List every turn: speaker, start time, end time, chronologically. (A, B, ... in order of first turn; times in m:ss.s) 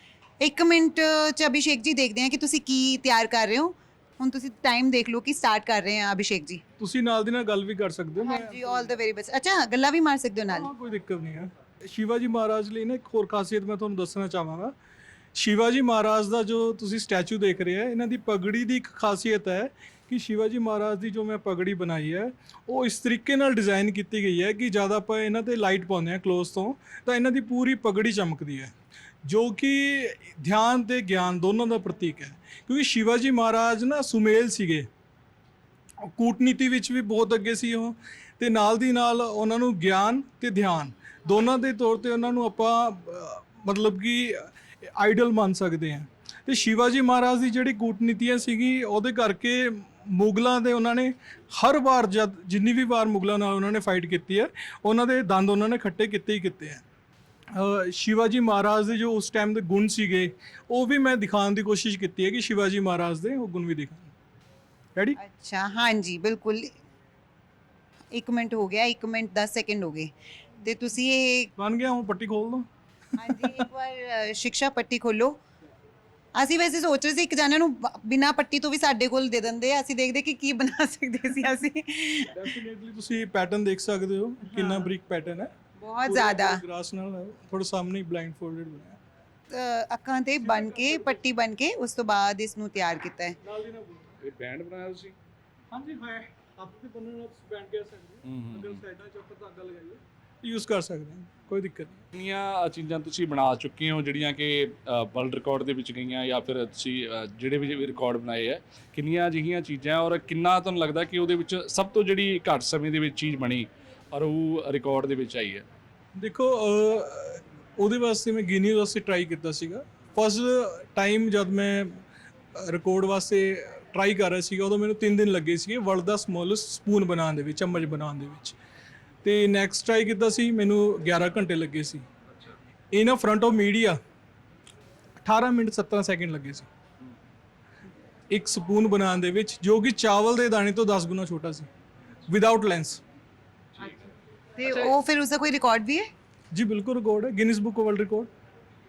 0:00.4-0:06.6 A
0:06.8-0:08.9 B
0:08.2-0:10.7 A
0:10.5-0:14.7 B
0:15.3-0:28.7 B
0:29.2-0:34.9 B
0:36.0-0:56.8 B
0:57.5-1:04.1 B
1:05.2-1:06.7 A
1:08.1-1:11.5 A
1:11.6-1:12.7 B
1:13.2-1:15.4 A
1:13.2-1:13.6 B
1:16.4-1:22.4 A
1:22.3-1:25.5 B
1:24.4-1:24.9 A
1:25.8-1:26.6 A
1:26.0-1:29.0 B
1:29.5-1:33.4 A
1:30.4-1:31.2 B
1:33.4-1:34.2 B
1:34.2-1:35.2 C
1:35.7-1:42.1 B
1:38.2-1:38.8 C
1:42.1-1:55.6 C
1:56.2-2:02.0 B
2:02.5-2:08.6 B
2:09.2-2:12.0 B
2:12.3-2:12.6 C
2:12.9-2:14.0 B
2:15.2-2:16.7 B
2:18.3-2:21.7 B
2:22.3-2:23.0 B
2:23.8-2:24.0 C
2:24.6-2:26.1 A
2:26.5-2:28.3 B